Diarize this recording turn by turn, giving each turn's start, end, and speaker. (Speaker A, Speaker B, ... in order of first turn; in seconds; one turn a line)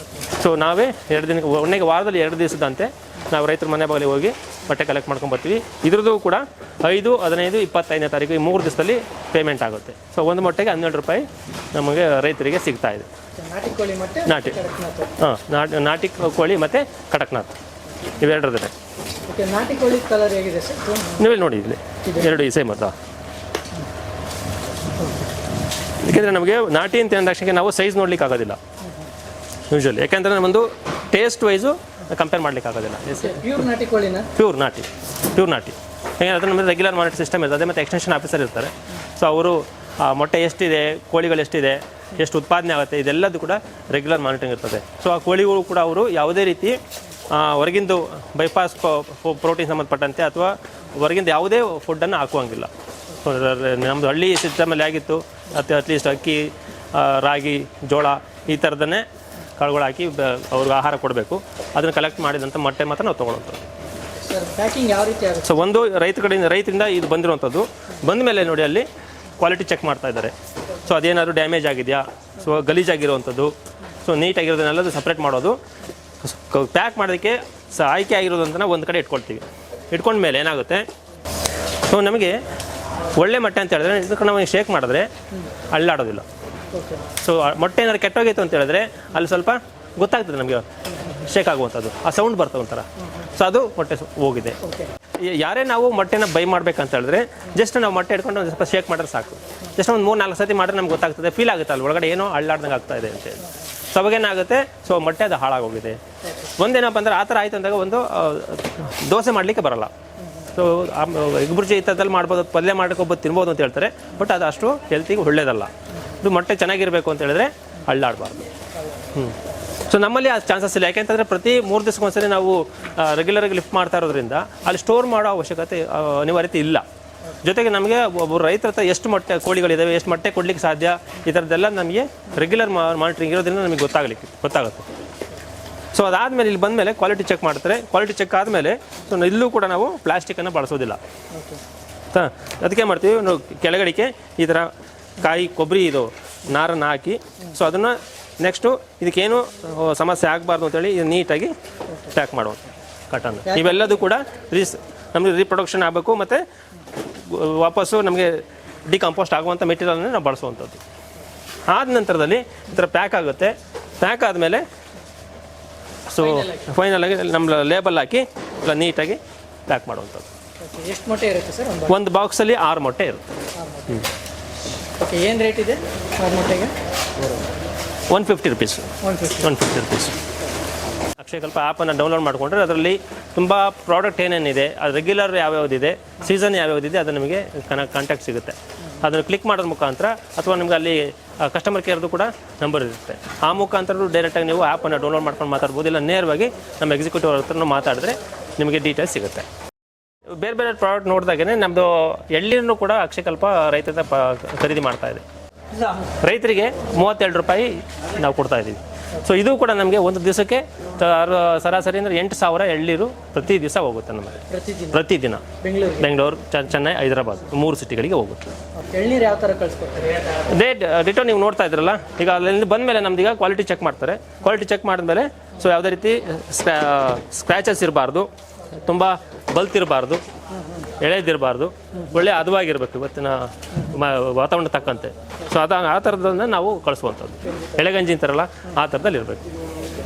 Speaker A: 0.2-13.1
Speaker B: 13.4-15.1
Speaker A: 14.3-14.6
Speaker A: 15.2-17.5
Speaker A: 18.2-18.7
Speaker B: 19.3-21.2
Speaker A: 21.1-22.9
Speaker B: 22.1-22.3
Speaker A: 26.0-28.6
Speaker A: 29.7-33.6
Speaker B: 33.2-34.3
Speaker A: 34.3-46.8
Speaker A: 47.3-59.0
Speaker A: 59.6-63.6
Speaker B: 64.2-65.5
Speaker A: 65.4-68.8
Speaker A: 69.4-75.6
Speaker A: 76.2-80.8
Speaker A: 81.9-82.4
Speaker A: 83.2-86.2
Speaker B: 86.7-87.0
Speaker A: 87.1-94.6
Speaker B: 94.6-94.9
Speaker A: 95.2-118.5
Speaker A: 119.1-126.8
Speaker A: 127.4-134.8
Speaker A: 135.9-141.0
Speaker B: 141.3-141.6
Speaker A: 142.1-156.4
Speaker B: 153.5-153.8
Speaker A: 157.1-160.8
Speaker A: 161.7-164.6
Speaker A: 166.1-170.3
Speaker B: 166.2-166.6
Speaker B: 170.6-171.9
Speaker A: 171.9-173.2
Speaker B: 173.6-174.0
Speaker B: 175.0-176.7
Speaker A: 178.1-180.2
Speaker B: 179.0-179.5
Speaker A: 181.2-199.4
Speaker A: 200.3-205.2
Speaker A: 205.9-218.4
Speaker B: 214.5-215.0
Speaker B: 215.6-216.1
Speaker B: 218.8-220.3
Speaker A: 220.4-230.2
Speaker A: 231.0-239.4